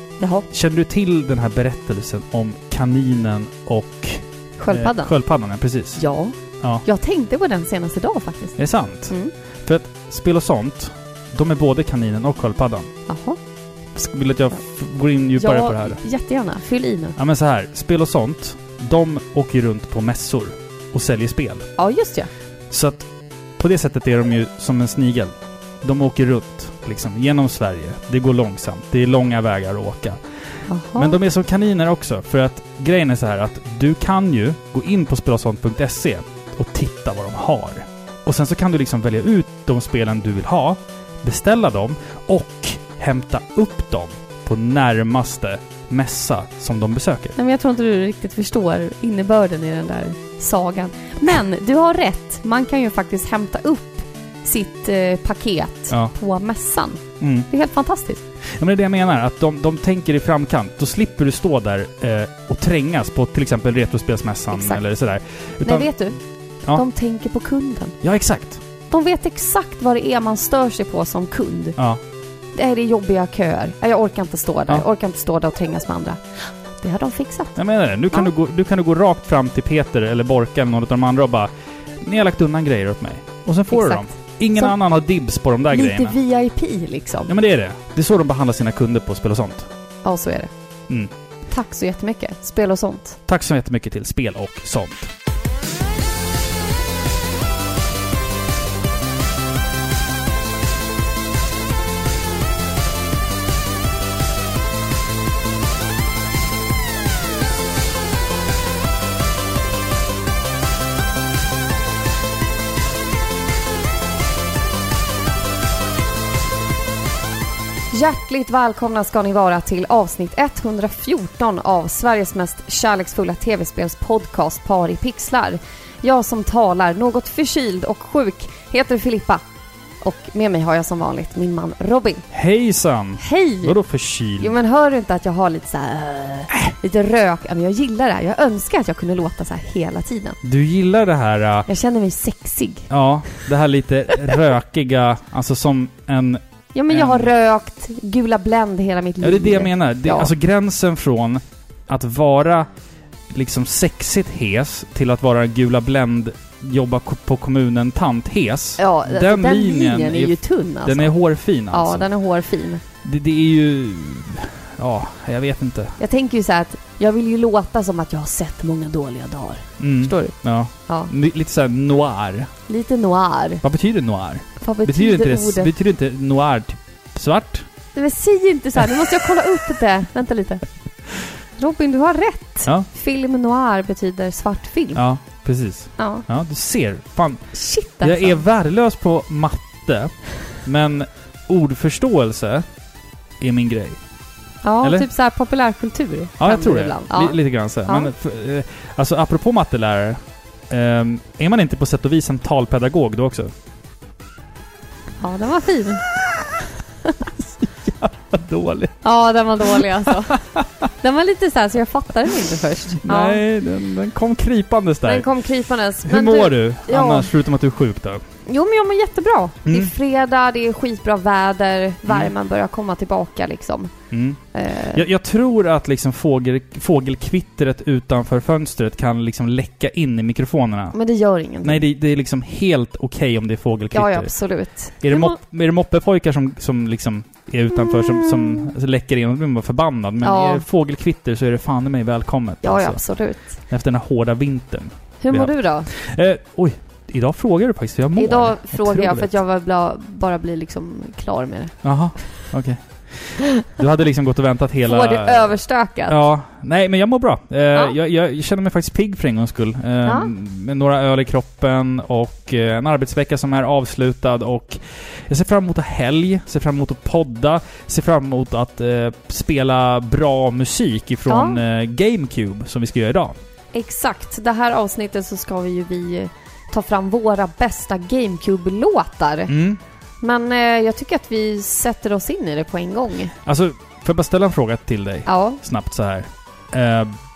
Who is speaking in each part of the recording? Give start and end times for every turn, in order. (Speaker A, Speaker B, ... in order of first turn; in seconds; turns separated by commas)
Speaker A: 0.2-0.5, Speaker B: 0.5-6.0, Speaker A: 4.6-5.2, Speaker A: 6.0-9.3, Speaker B: 8.6-12.9, Speaker A: 13.1-13.4, Speaker B: 13.9-16.0, Speaker A: 15.4-17.2, Speaker B: 17.2-21.7, Speaker A: 21.8-22.3, Speaker B: 22.7-47.4, Speaker A: 30.7-31.2, Speaker A: 47.4-58.2, Speaker B: 57.2-57.5, Speaker B: 58.6-65.9, Speaker A: 64.5-64.8, Speaker A: 65.6-66.2, Speaker A: 66.7-68.0, Speaker B: 68.0-68.6, Speaker A: 68.9-71.8, Speaker A: 72.5-77.6, Speaker B: 77.6-86.2, Speaker A: 83.7-84.8, Speaker A: 85.7-87.3, Speaker B: 87.3-89.7, Speaker A: 90.0-90.5, Speaker A: 91.5-93.2, Speaker B: 93.3-95.1, Speaker A: 117.9-129.4, Speaker A: 130.0-132.2, Speaker B: 132.3-134.6, Speaker A: 133.2-133.8, Speaker A: 134.4-140.4, Speaker B: 140.4-141.7, Speaker A: 141.7-142.9, Speaker B: 142.9-147.3, Speaker A: 146.7-150.3, Speaker B: 149.2-152.7, Speaker B: 153.3-162.1, Speaker A: 158.8-161.1, Speaker A: 161.7-162.8, Speaker B: 163.0-166.0, Speaker A: 166.0-170.3, Speaker B: 169.8-172.5, Speaker A: 172.7-173.6, Speaker B: 173.6-177.7, Speaker A: 174.6-175.7, Speaker A: 177.9-180.6, Speaker A: 181.6-185.0, Speaker B: 184.9-192.7, Speaker A: 186.0-186.2, Speaker A: 187.5-188.4, Speaker B: 193.4-194.0, Speaker A: 194.6-198.1, Speaker B: 194.8-195.1, Speaker B: 196.4-203.5, Speaker A: 205.2-206.1, Speaker B: 206.2-206.6, Speaker B: 207.3-209.0, Speaker A: 209.0-210.4, Speaker B: 209.6-210.9, Speaker A: 211.0-213.4, Speaker B: 213.0-215.3, Speaker A: 215.1-217.3, Speaker B: 216.0-218.3, Speaker A: 218.5-223.9, Speaker B: 219.7-219.9, Speaker B: 224.1-224.4, Speaker A: 224.5-225.0, Speaker B: 224.9-231.0, Speaker A: 230.9-231.8, Speaker B: 231.6-234.3, Speaker A: 233.9-235.4, Speaker B: 234.9-249.3, Speaker A: 237.7-238.7, Speaker A: 240.2-240.6, Speaker A: 242.6-243.6, Speaker A: 245.2-245.9, Speaker A: 248.2-252.3, Speaker B: 251.8-273.4, Speaker A: 254.8-256.2, Speaker A: 260.1-260.3, Speaker A: 271.3-271.6, Speaker A: 273.7-279.5, Speaker B: 279.5-279.8, Speaker A: 280.2-283.3, Speaker B: 283.4-287.1, Speaker A: 285.3-285.6